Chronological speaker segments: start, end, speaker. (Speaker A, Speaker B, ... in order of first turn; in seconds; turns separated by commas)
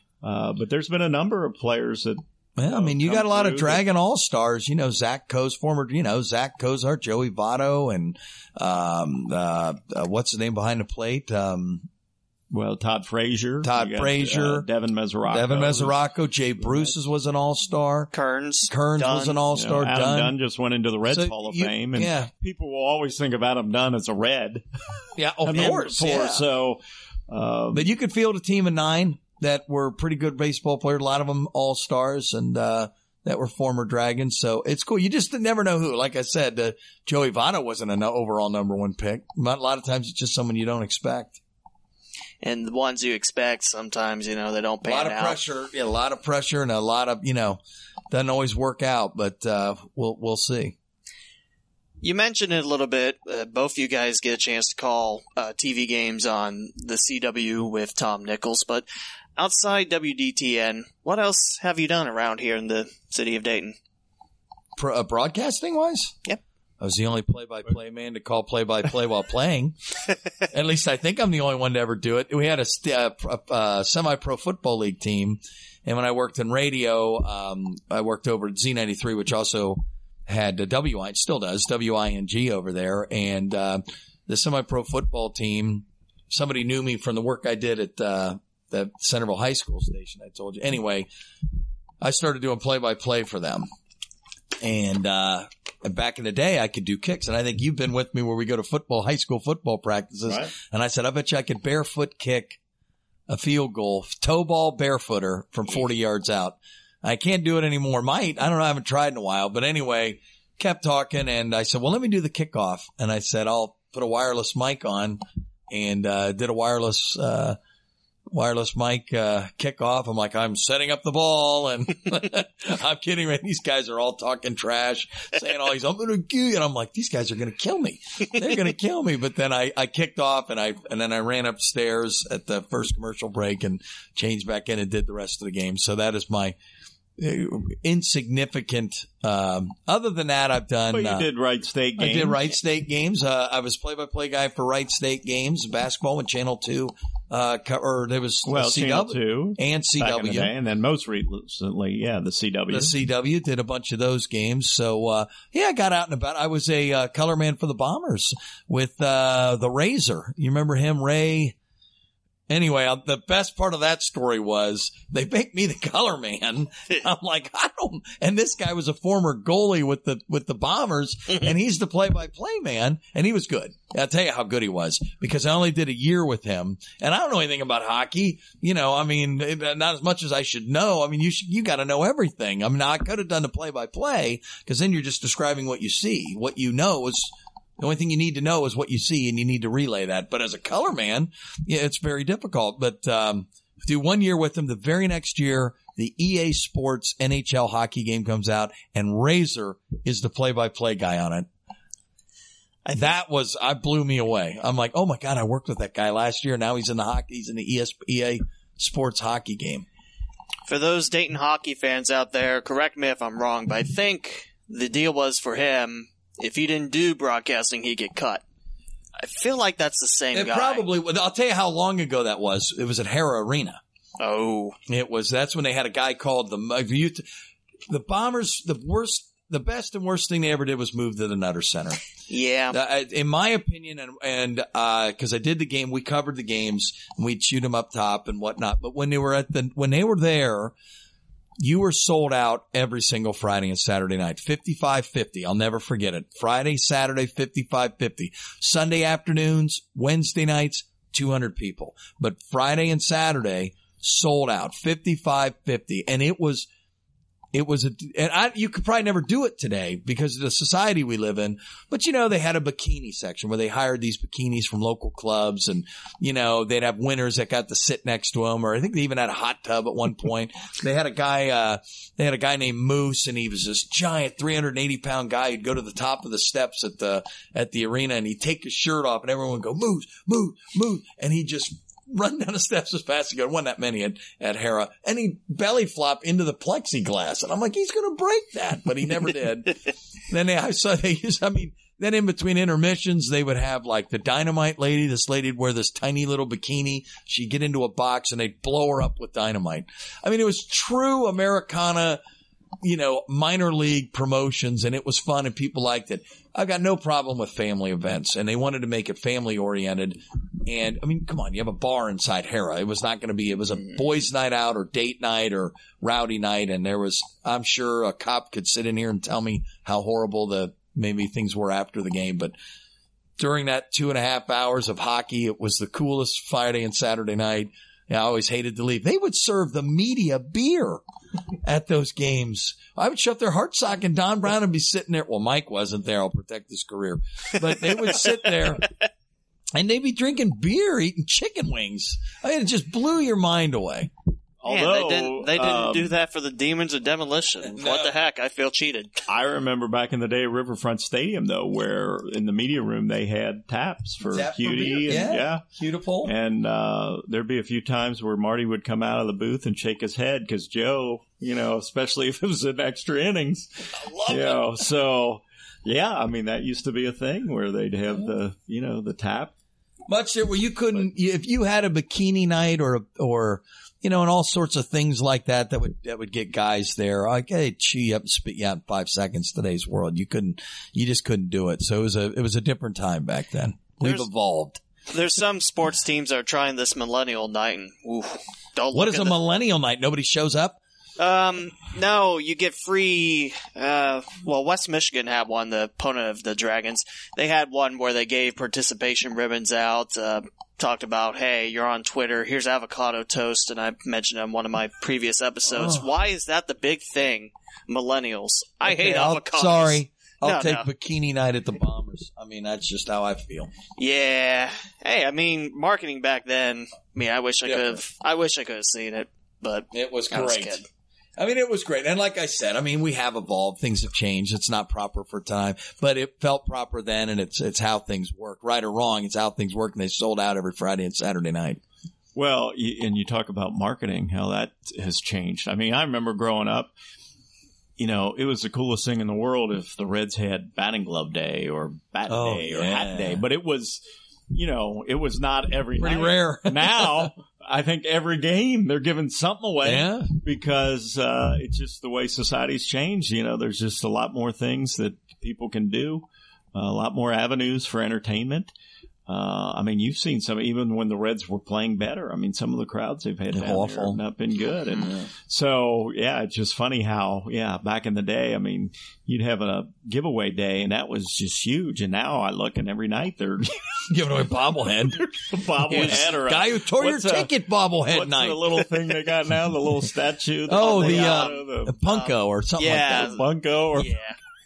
Speaker A: 0.2-3.8, Speaker B: 2.6-11.9, Speaker A: 12.5-16.0, Speaker B: 13.6-14.7, Speaker B: 15.3-18.1, Speaker A: 16.6-16.9, Speaker C: 18.1-19.4, Speaker B: 18.7-20.4, Speaker A: 19.5-27.9, Speaker B: 21.1-22.3, Speaker B: 25.2-26.4, Speaker C: 25.6-25.9, Speaker B: 27.7-41.4, Speaker C: 42.4-45.4, Speaker B: 44.8-50.8, Speaker C: 52.0-63.8, Speaker B: 64.8-66.2, Speaker B: 66.8-69.8, Speaker B: 70.5-91.1, Speaker B: 92.0-93.7, Speaker B: 94.6-102.6, Speaker B: 103.3-117.6, Speaker B: 118.3-136.6, Speaker B: 137.2-141.3, Speaker A: 140.9-142.4, Speaker B: 142.0-150.5, Speaker A: 148.5-152.9, Speaker B: 152.7-161.6, Speaker B: 162.5-201.5, Speaker C: 202.8-203.1, Speaker B: 202.9-209.9, Speaker C: 210.7-218.4, Speaker C: 219.2-220.8, Speaker B: 220.3-223.8, Speaker C: 224.2-224.8, Speaker B: 224.9-227.2, Speaker B: 227.9-232.0, Speaker C: 232.3-232.8, Speaker B: 232.7-240.7, Speaker B: 241.6-256.7, Speaker B: 257.5-302.2, Speaker B: 302.8-322.5, Speaker B: 323.4-331.0, Speaker B: 331.6-338.9, Speaker B: 339.8-344.1, Speaker A: 344.6-346.1, Speaker C: 344.7-349.2, Speaker B: 347.6-348.1, Speaker A: 349.3-355.6, Speaker B: 354.3-356.3, Speaker A: 356.2-369.5, Speaker B: 363.9-364.6, Speaker B: 370.1-384.8, Speaker C: 385.1-389.4, Speaker B: 388.9-390.8, Speaker C: 391.2-410.9, Speaker B: 405.7-406.1, Speaker B: 408.8-413.7, Speaker C: 414.0-420.9, Speaker B: 417.6-418.0, Speaker B: 419.9-420.8, Speaker B: 421.4-431.8, Speaker A: 432.4-436.9, Speaker A: 438.0-458.7, Speaker B: 442.3-443.4, Speaker B: 446.0-447.3, Speaker B: 449.8-450.3, Speaker A: 459.3-474.0, Speaker B: 463.5-464.2, Speaker B: 474.1-475.2, Speaker A: 475.2-477.5, Speaker B: 475.9-478.9, Speaker A: 478.1-481.9, Speaker B: 480.7-483.4, Speaker C: 480.7-483.4, Speaker A: 483.1-484.2, Speaker C: 484.0-484.4